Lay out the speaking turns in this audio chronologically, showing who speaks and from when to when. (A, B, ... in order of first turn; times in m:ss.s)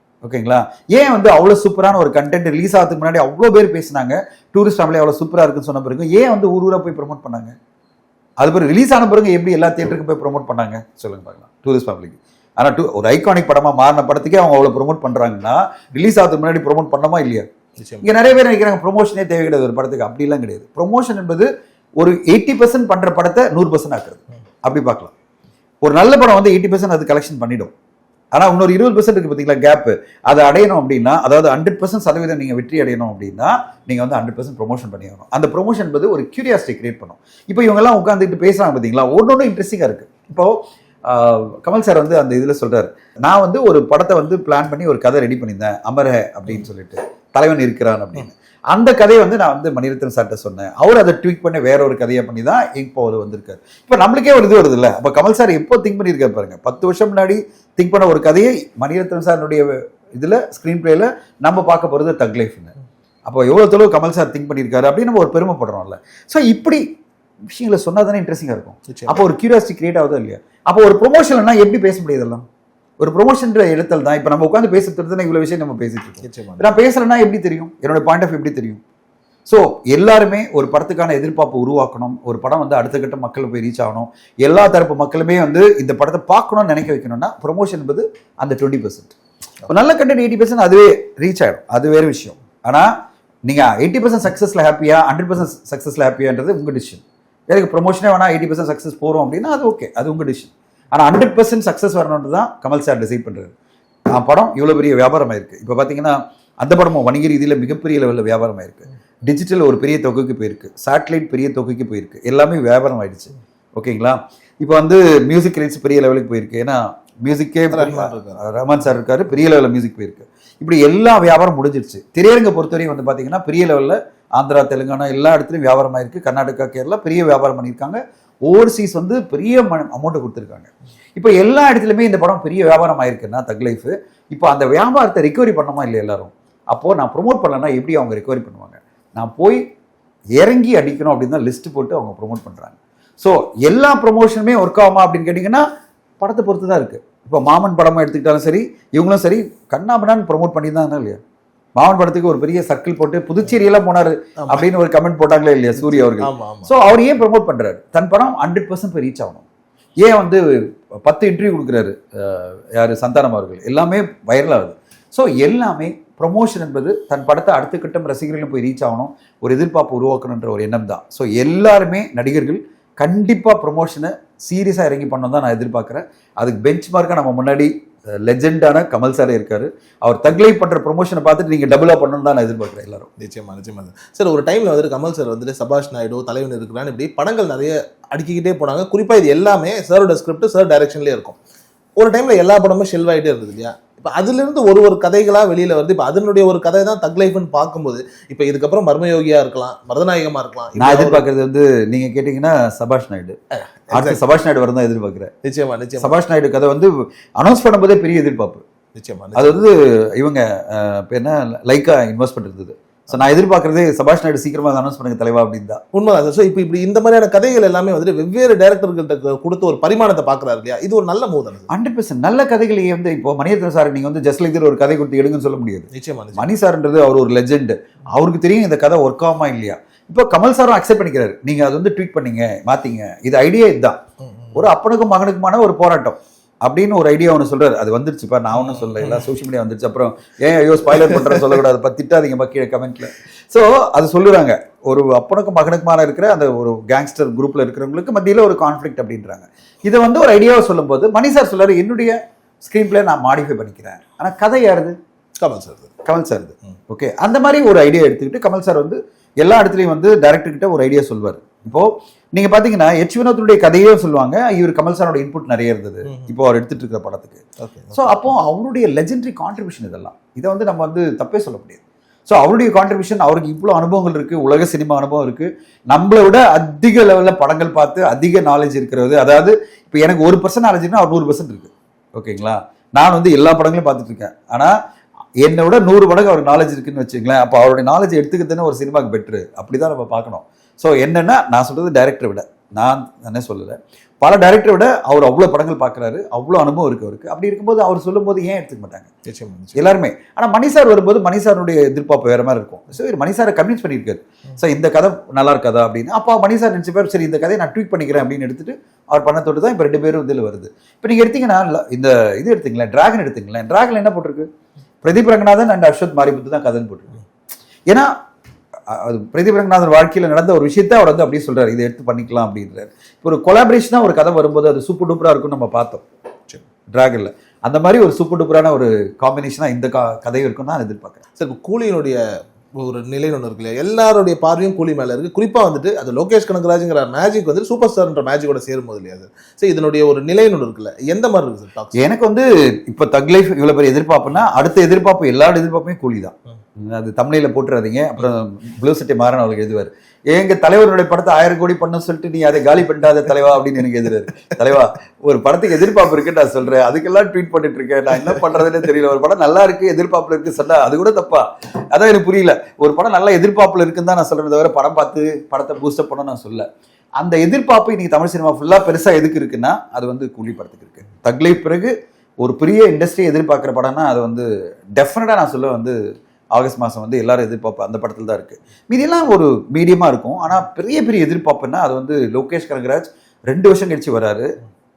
0:00.2-0:07.5 A
0:08.4-0:17.5 A
0:17.8-0:18.2 B
0:18.0-0:21.5 A
0:22.0-0:25.1 A
0:25.8-0:27.7 A
0:28.3-0:40.6 A
0:41.1-1:02.7 A
1:03.3-1:06.8 A
1:07.5-1:12.5 A
1:08.9-1:09.2 B
1:13.0-1:18.8 A
1:16.2-1:16.7 B
1:19.5-1:29.2 A
1:29.7-1:32.9 A
1:33.5-1:43.5 A
1:44.1-2:19.6 A
1:57.7-1:58.4 B
2:20.4-2:25.6 A
2:26.2-2:31.2 A
2:31.8-2:39.4 A
2:34.4-2:34.7 B
2:35.8-2:36.7 B
2:40.0-3:03.1 A
3:03.2-3:11.4 B
3:12.0-3:21.3 B
3:20.8-3:23.4 A
3:23.6-3:24.2 B
3:23.9-3:25.3 A
3:25.4-3:26.1 B
3:26.0-3:28.6 A
3:29.0-3:29.7 B
3:29.4-3:35.8 A
3:35.9-3:41.7 B
3:41.7-3:54.0 A
3:45.9-3:46.5 B
3:54.2-3:54.6 B
3:54.6-4:15.0 A
3:58.6-3:59.3 B
4:01.0-4:01.6 B
4:15.4-4:15.9 B
4:16.0-4:44.7 A
4:26.1-4:26.3 B
4:27.6-4:28.2 B
4:45.4-4:59.1 A
4:59.3-4:59.8 B
4:59.8-5:14.5 A
5:15.0-5:17.2 A
5:18.9-5:26.0 A
5:26.9-5:31.2 A
5:31.4-5:32.2 B
5:32.8-5:42.0 B
5:42.0-6:06.7 A
6:07.2-6:16.0 A
6:16.5-6:24.5 A